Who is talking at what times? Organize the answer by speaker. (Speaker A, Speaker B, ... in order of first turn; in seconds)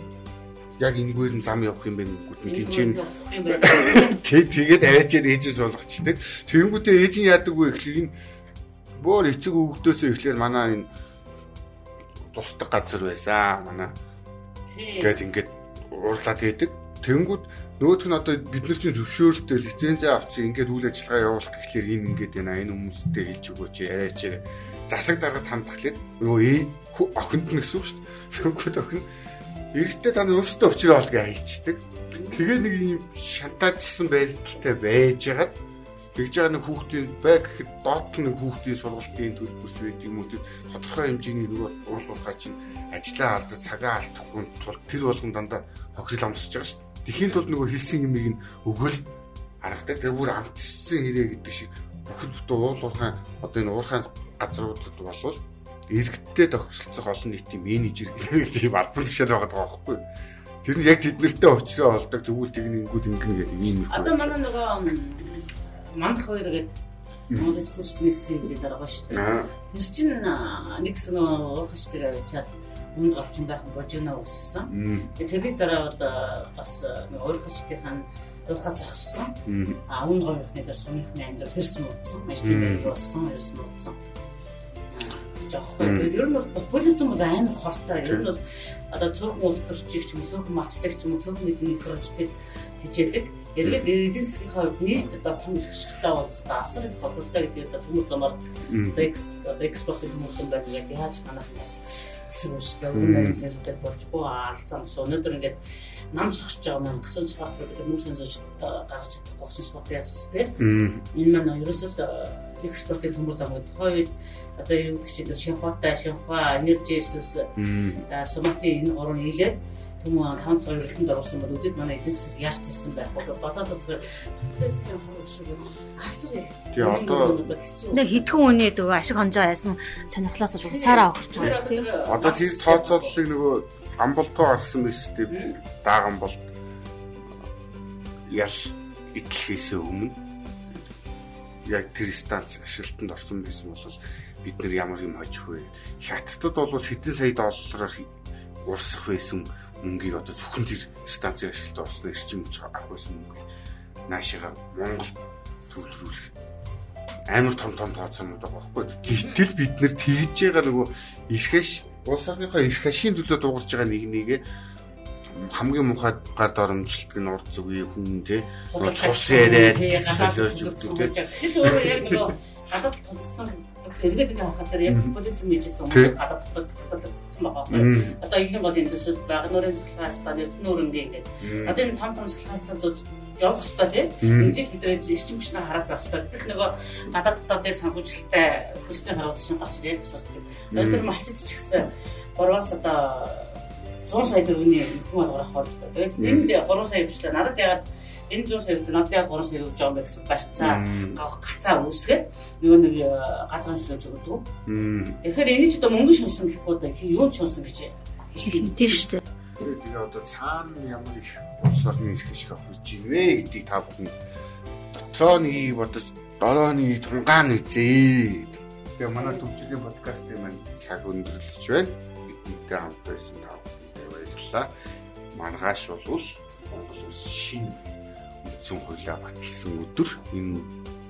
Speaker A: 0.8-8.2, 9.0-10.9, 12.3-13.9, 15.0-29.1, 29.7-35.6, 36.1-49.0, 49.6-60.0, 60.6-64.3, 67.3-67.6, 69.1-69.5, 74.7-75.1, 79.5-79.8, 82.4-82.9, 85.8-86.1, 98.7-99.1, 102.9-103.4, 110.6-111.0, 117.6-118.1, 126.7-127.5, 132.1-136.4, 138.3-140.2, 141.7-148.1, 148.6-153.5, 154.1-155.2, 155.7-156.3, 157.3-164.4, 165.3-172.2, 174.9-175.1, 177.7-178.2, 181.4-181.8, 184.2-184.6, 190.7-191.0, 196.2-196.5, 200.6-201.2, 204.7-205.2, 209.6-214.2, 214.9-224.7, 225.3-227.9, 228.4-230.7
Speaker B: 2.5-4.2, 14.7-15.2, 32.1-32.4, 63.9-66.7, 67.4-84.0, 84.9-98.4, 98.9-105.6, 106.1-110.6, 111.1-117.5, 118.1-128.3, 130.6-133.2, 135.3-135.6, 159.0-159.4, 168.7-191.8, 192.4-204.5, 205.2-209.1
Speaker C: 127.9-131.9, 208.4-209.3